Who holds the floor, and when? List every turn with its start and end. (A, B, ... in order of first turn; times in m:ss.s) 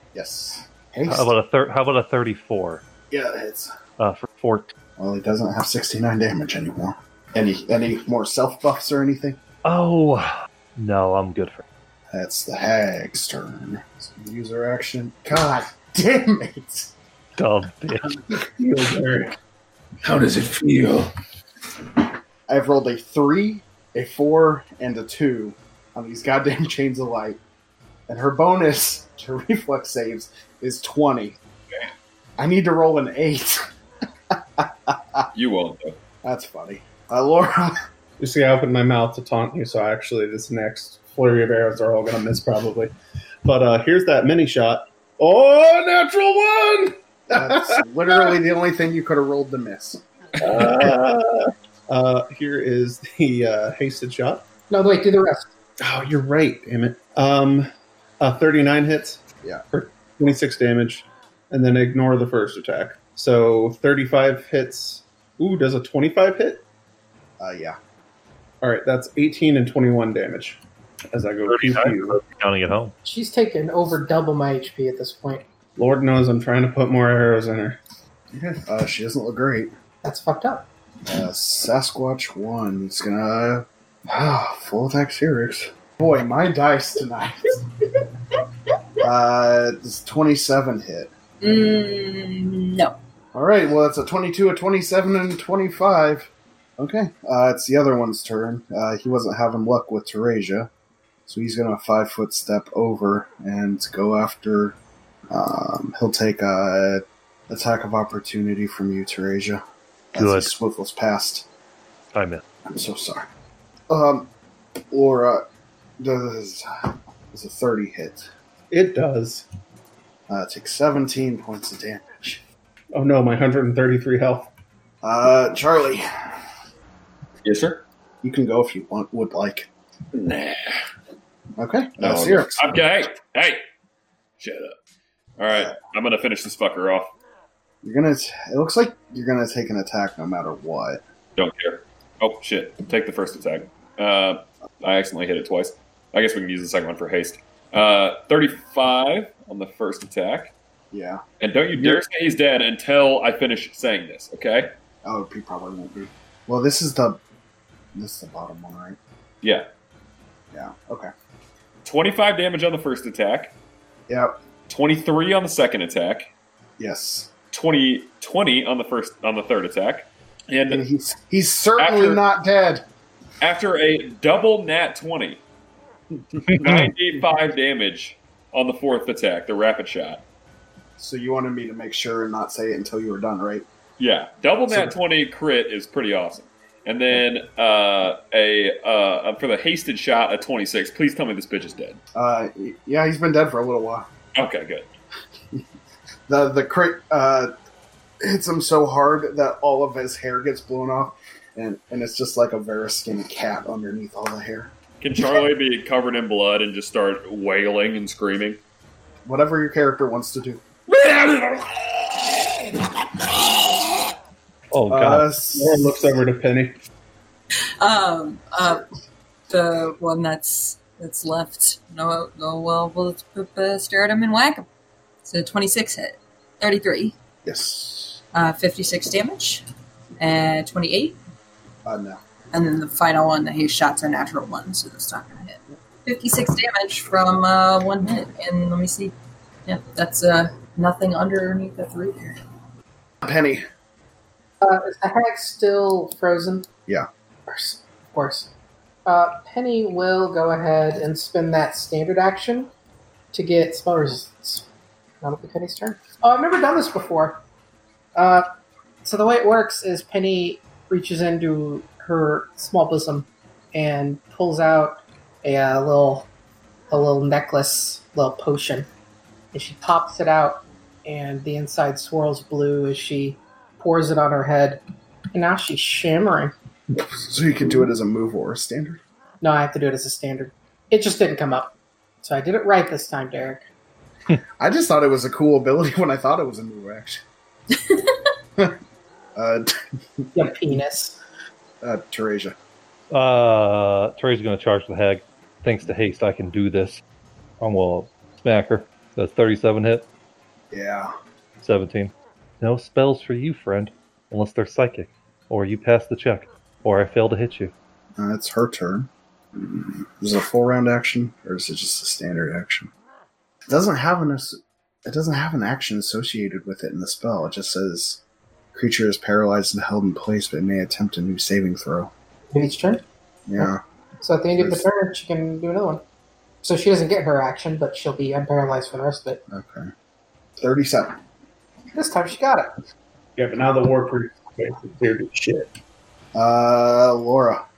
0:00.1-0:01.3 A
0:01.1-0:02.8 B
0:03.1-0:03.7 A
0:04.0-0:04.7 B
0:05.0-0:09.4 A
0:09.6-0:11.6 B
0:12.1-0:16.9 A
0:17.4-0:18.2 B
0:18.6-0:19.3 C
0:20.0-0:21.0 C
0:22.5-0:27.4 A
0:28.1-0:31.4 A
0:32.4-0:33.6 A
0:34.3-0:35.3 A
0:35.3-0:36.0 D
0:36.2-0:37.8 A
0:38.2-0:42.9 C
0:43.4-0:48.4 C
0:47.3-0:50.0 A
0:50.4-0:54.4 C
0:54.7-0:55.5 E
0:55.8-0:57.7 C
0:58.2-1:06.6 C
1:07.4-1:07.8 A
1:08.6-1:10.6 C
1:11.1-1:12.2 C
1:11.5-1:12.9 B
1:13.0-1:15.4 E
1:15.8-1:17.8 C
1:18.3-1:19.7 A
1:20.0-1:20.7 E
1:21.0-1:27.6 A
1:29.0-1:31.1 A
1:31.4-1:33.0 F
1:33.3-1:40.7 A
1:41.3-1:44.8 A
1:45.3-1:51.5 A
1:50.2-1:50.5 B
1:52.1-1:52.4 B
1:52.7-1:53.3 A
1:53.9-1:54.3 A
1:54.9-1:55.4 A
1:56.0-1:58.3 A
1:58.7-1:59.4 C
2:00.3-2:02.4 A
2:02.9-2:04.5 C
2:05.0-2:06.0 A
2:07.4-2:07.8 D
2:08.2-2:09.7 A
2:10.1-2:10.8 D
2:11.6-2:12.8 A
2:12.0-2:13.6 D
2:14.4-2:14.8 D
2:15.4-2:17.1 D
2:17.8-2:21.0 A
2:21.4-2:30.5 D
2:30.9-2:31.2 A
2:31.4-2:34.7 D
2:35.0-2:37.2 A
2:37.9-2:39.0 A
2:39.4-2:39.7 D
2:40.5-2:41.1 A
2:41.8-2:43.5 D
2:44.1-2:44.3 A
2:44.7-2:46.3 D
2:46.8-2:47.3 A
2:47.5-2:50.8 D
2:50.7-2:52.8 A
2:51.8-2:52.2 D
2:53.4-2:55.4 D
2:56.5-3:00.2 D
3:01.0-3:03.6 A
3:04.0-3:12.0 D
3:12.1-3:14.1 A
3:14.3-3:14.9 D
3:16.3-3:17.5 A
3:18.2-3:25.5 A
3:25.0-3:28.6 D
3:29.2-3:30.6 A
3:31.0-3:31.4 D
3:34.7-3:35.3 B
3:34.9-3:36.0 A
3:35.5-3:36.8 C
3:37.8-3:38.8 F
3:39.5-3:44.6 F
3:45.2-3:47.2 F
3:47.4-3:48.2 A
3:48.3-3:49.6 F
3:50.2-3:51.2 F
3:51.8-3:52.2 A
3:52.5-3:59.1 F
3:59.6-4:02.4 F
4:03.2-4:03.6 A
4:04.6-4:06.7 E
4:07.5-4:08.5 E
4:09.0-4:12.7 E
4:13.3-4:14.7 E
4:15.2-4:17.4 E
4:18.2-4:18.5 E
4:19.0-4:26.3 E
4:26.9-4:28.9 E
4:29.5-4:34.8 E
4:35.3-4:36.5 E
4:36.9-4:39.0 A
4:39.4-4:43.6 E
4:44.6-4:47.2 A
4:47.7-4:48.2 F
4:49.4-4:50.4 A
4:50.3-4:51.2 E
4:51.8-4:52.5 A
4:53.1-4:57.0 B
4:57.6-5:00.0 B
5:00.7-5:01.1 A
5:01.6-5:07.7 B
5:08.2-5:12.9 A
5:13.7-5:18.2 A
5:18.7-5:22.1 A
5:22.5-5:23.0 E
5:23.5-5:23.8 A
5:24.2-5:26.0 E
5:24.6-5:24.8 A
5:26.6-5:29.4 E
5:29.5-5:29.9 A
5:30.6-5:31.2 A
5:31.9-5:32.7 E
5:33.4-5:35.8 C
5:36.3-5:37.6 A